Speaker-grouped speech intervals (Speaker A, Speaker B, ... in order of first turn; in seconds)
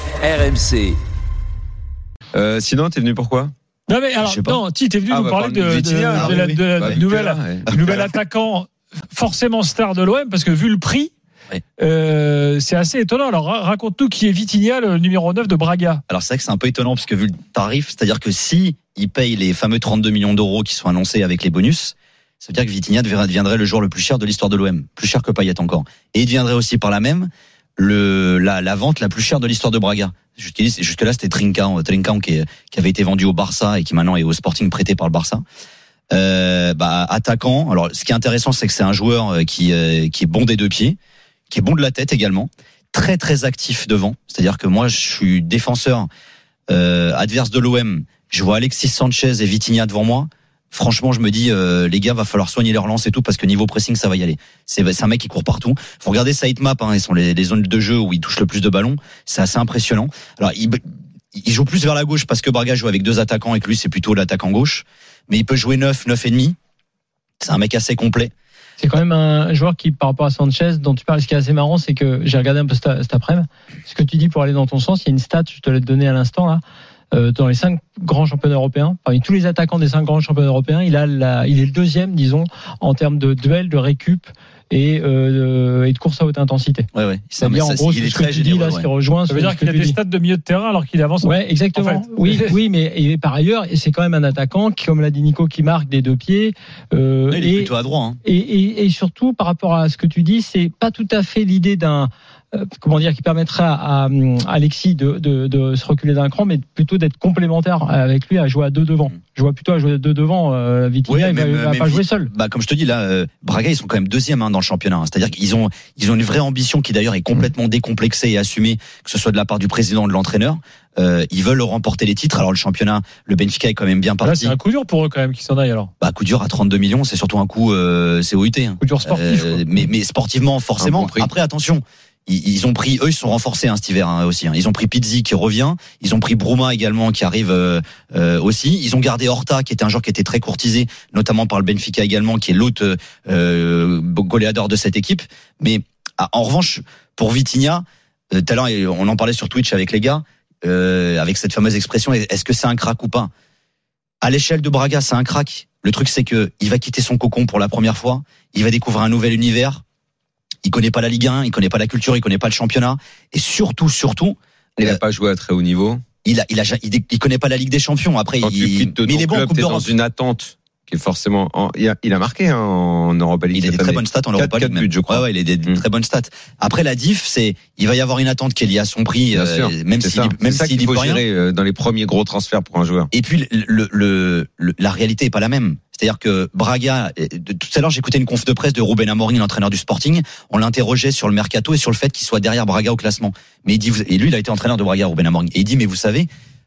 Speaker A: 2.3-3.5, 5.1-7.8, 130.8-131.3, 164.8-166.0, 168.4-175.8, 179.3-183.1
Speaker B: 3.9-11.1, 11.8-16.0, 89.3-92.5, 124.2-125.9, 128.8-129.6
Speaker C: 4.2-4.6, 6.0-7.0, 7.7-8.0, 16.1-35.4, 36.1-41.0, 41.5-46.1, 46.7-60.8, 61.4-66.5, 67.4-68.3, 86.9-88.9, 97.3-98.2, 111.1-124.5, 126.0-153.3, 154.2-159.8, 160.7-165.0, 166.2-169.9, 173.5-181.2, 183.1-196.3
Speaker D: 68.8-76.6, 77.1-86.9, 87.4-90.0, 91.2-97.7, 98.2-112.3